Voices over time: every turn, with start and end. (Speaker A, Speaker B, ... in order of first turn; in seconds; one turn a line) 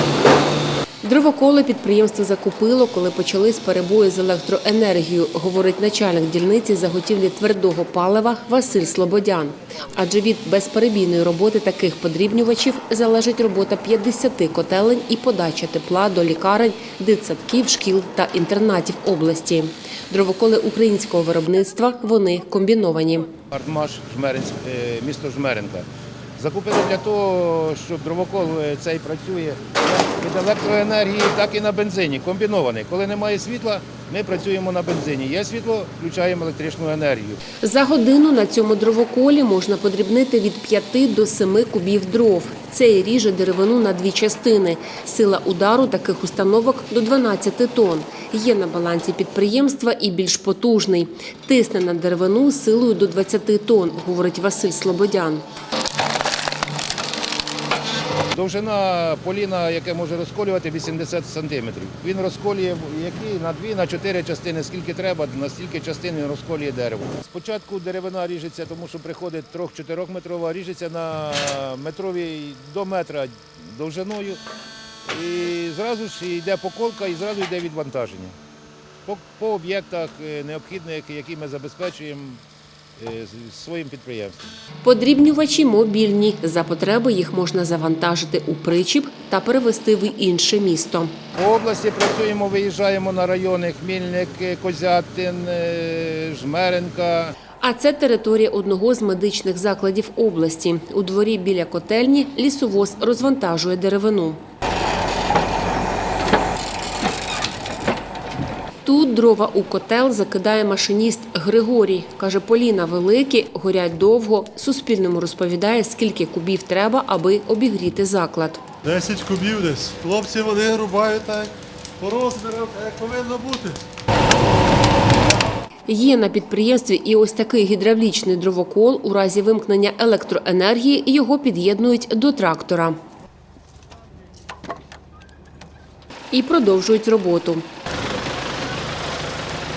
Speaker A: 1.0-23.3
Speaker B: 23.5-25.9
Speaker B: 26.4-37.4
Speaker A: 37.5-55.4
Speaker B: 58.3-74.4
Speaker B: 75.1-78.3
Speaker B: 79.0-82.4
Speaker B: 83.0-84.5
Speaker A: 84.8-91.2
Speaker B: 91.3-97.3
Speaker A: 97.6-104.4
Speaker A: 108.8-118.6
Speaker C: 118.8-123.8
Speaker A: 125.9-132.9
Speaker A: 136.3-137.6